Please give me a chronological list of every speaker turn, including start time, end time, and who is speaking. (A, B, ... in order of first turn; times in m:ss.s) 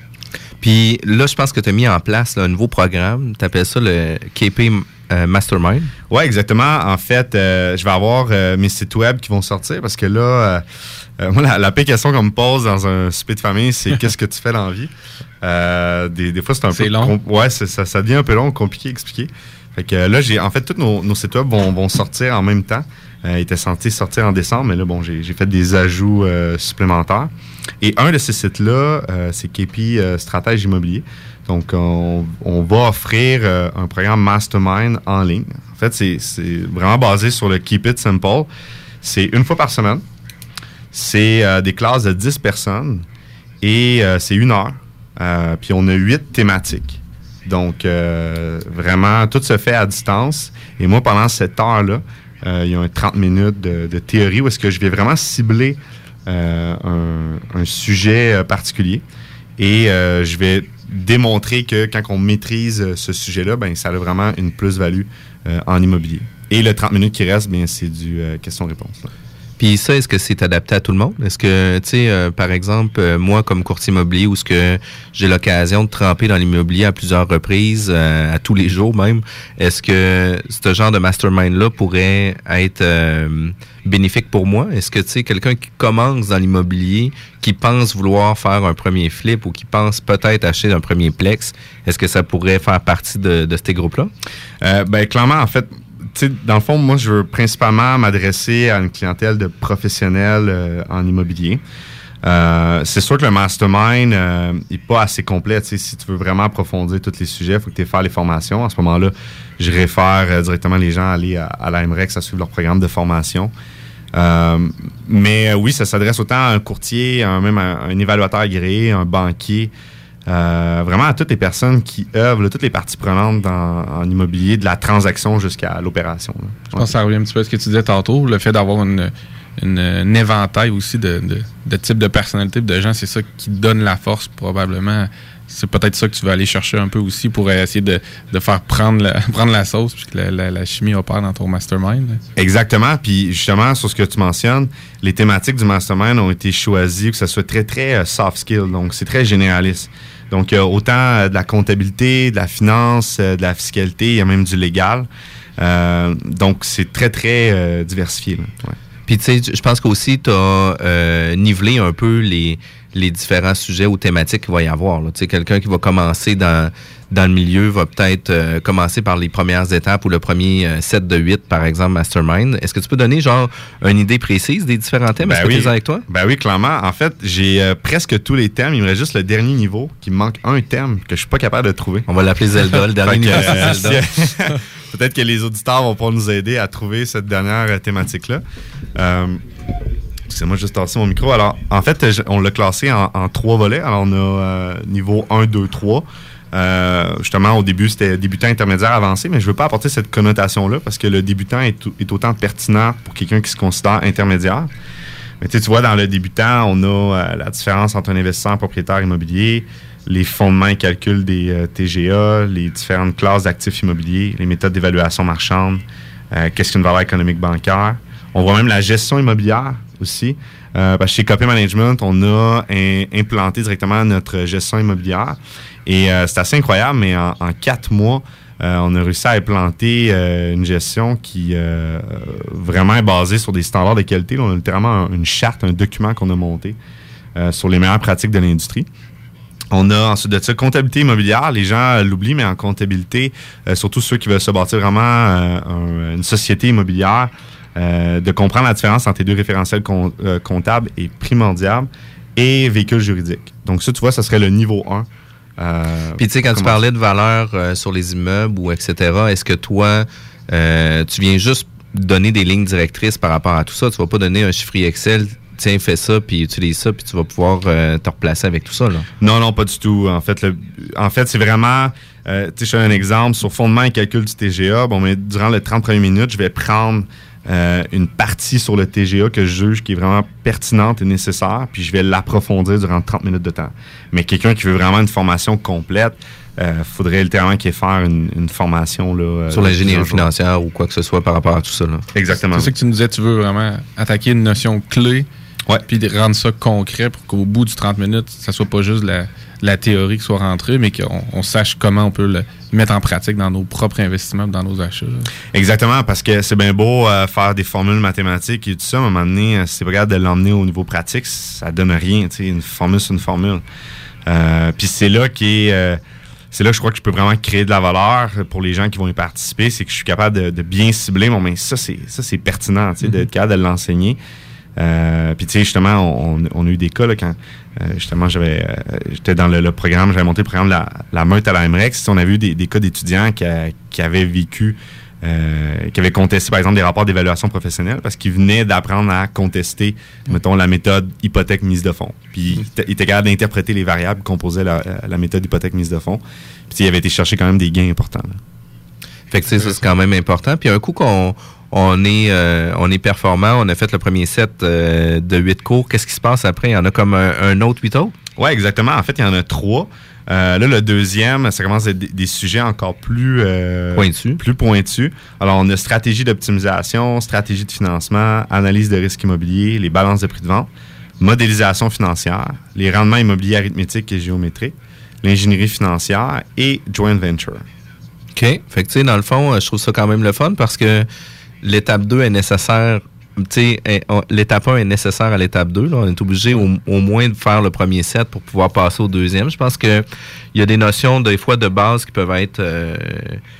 0:00.6-0:05.9 A
0:06.1-0:10.6 B
0:11.2-0:14.9 B
0:15.4-0:27.3 B
0:16.7-0:17.2 C
0:27.8-0:38.5 B
0:39.0-0:40.0 B
0:40.9-0:43.0 B
0:43.6-0:59.0 B
0:59.6-1:09.1 B
1:09.6-1:34.1 A
1:34.6-1:41.6 B
1:42.2-1:53.5 B
1:54.1-1:59.7 B
2:00.3-2:07.0 B
2:06.8-2:22.2 C
2:22.4-2:35.1 B
2:35.6-2:38.8 B
2:39.1-2:56.0 A
2:55.2-3:02.1 B
3:02.1-3:04.0 A
3:03.0-3:08.4 B
3:09.0-3:09.4 B
3:10.3-3:24.7 B
3:25.4-3:56.8 B
3:57.4-3:58.9 B
3:59.7-4:15.1 B
4:15.6-4:16.8 B
4:16.2-4:29.1 A
4:29.2-4:50.3 B
4:49.5-4:52.1 A
4:52.2-4:52.7 B
4:52.5-4:55.3 C
4:55.9-5:05.3 C
5:05.5-5:13.6 B
5:14.3-5:16.0 B
5:16.5-5:24.2 B
5:24.8-5:48.4 B
5:49.3-5:58.1 A
5:58.4-6:10.7 B
6:04.0-6:04.4 A
6:11.2-6:17.6 B
6:18.4-6:21.1 A
6:21.6-6:33.4 A